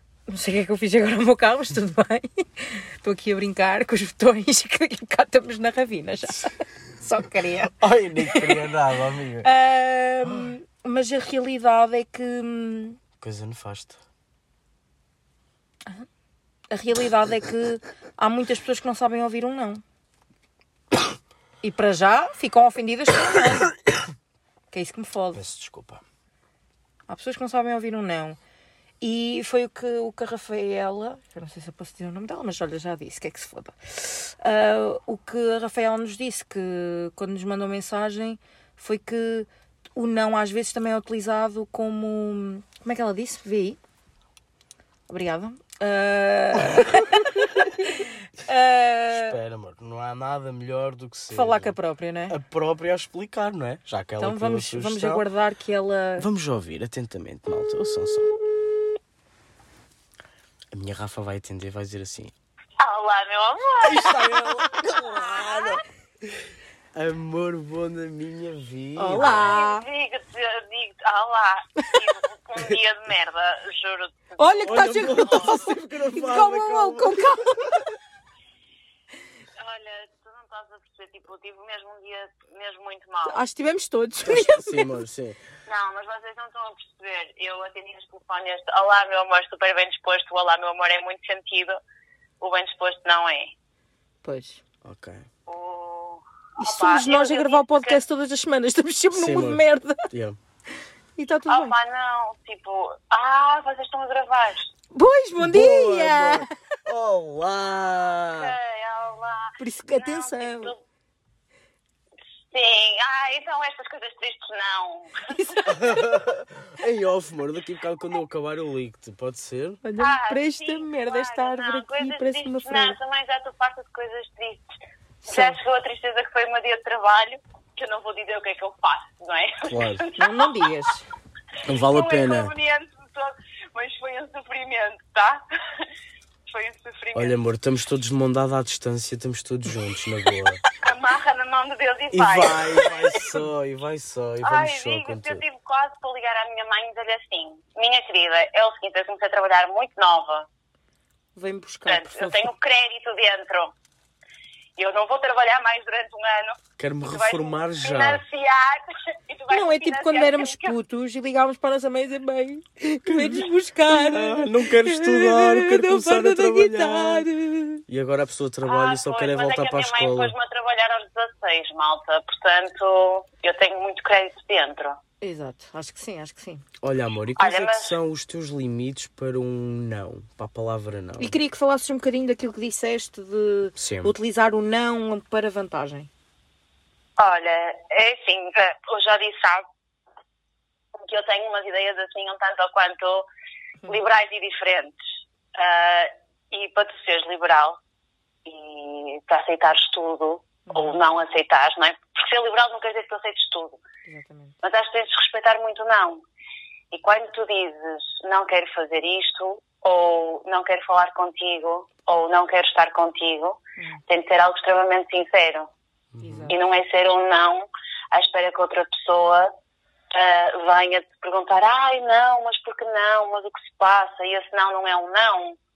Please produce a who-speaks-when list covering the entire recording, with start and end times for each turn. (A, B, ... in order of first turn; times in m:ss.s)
0:00.3-0:08.7 A
0:07.8-0:09.5 B
0:09.4-0:13.0 A
0:10.2-0:10.5 B
0:13.2-0:14.0 B
0:16.7-0:19.8 A
0:21.6-0:23.7 A
0:24.7-0:25.4 A
0:25.3-0:26.0 B
0:27.1-0:28.4 A
0:29.0-0:43.8 A
0:45.1-0:49.4 A
0:49.1-0:51.8 B
0:51.3-0:52.4 A
0:52.3-0:55.2 B
0:54.2-0:56.3 A
0:56.2-0:58.3 B
1:00.7-1:02.3 B
1:02.8-1:05.8 C
1:03.8-1:09.5 B
1:09.0-1:09.8 A
1:09.2-1:15.5 C
1:14.4-1:17.8 A
1:14.6-1:17.8 B
1:19.6-1:23.4 C
1:23.2-1:24.9 A
1:24.2-1:25.4 B
1:25.7-1:31.8 C
1:32.4-1:33.5 C
1:34.2-1:34.6 A
1:34.8-1:35.2 B
1:35.5-1:38.0 C
1:36.6-1:40.1 A
1:39.1-1:40.4 B
1:41.2-1:41.7 A
1:41.5-1:44.7 C
1:44.9-1:46.5 A
1:45.4-1:48.6 B
1:48.2-1:50.8 C
1:49.6-1:50.7 A
1:52.5-1:55.6 C
1:55.3-1:56.0 A
1:55.7-1:59.8 B
1:59.8-2:03.0 A
2:00.0-2:04.6 C
2:05.2-2:05.6 A
2:05.2-2:10.5 C
2:09.6-2:10.1 B
2:10.2-2:11.1 A
2:11.6-2:12.5 B
2:11.7-2:15.9 C
2:16.5-2:17.4 C
2:17.1-2:20.6 B
2:20.7-2:23.2 C
2:22.1-2:25.4 B
2:24.4-2:30.5 C
2:31.4-2:32.5 A
2:31.9-2:33.7 C
2:34.8-2:40.7 C
2:36.8-2:38.2 B
2:39.5-2:47.8 A
2:43.1-2:47.3 B
2:47.9-2:50.3 B
2:48.6-2:55.0 C
2:55.2-2:56.6 A
2:56.8-3:01.4 B
2:57.4-2:58.0 C
3:01.2-3:06.1 A
3:03.8-3:04.1 B
3:07.2-3:09.7 C
3:10.9-3:13.2 C
3:13.9-3:15.0 C
3:15.6-3:17.8 C
3:18.4-3:23.8 C
3:20.7-3:21.0 A
3:24.1-3:24.6 A
3:24.6-3:26.2 C
3:26.9-3:35.7 C
3:36.1-3:36.6 B
3:36.2-3:36.6 A
3:36.5-3:39.5 C
3:40.1-3:45.6 C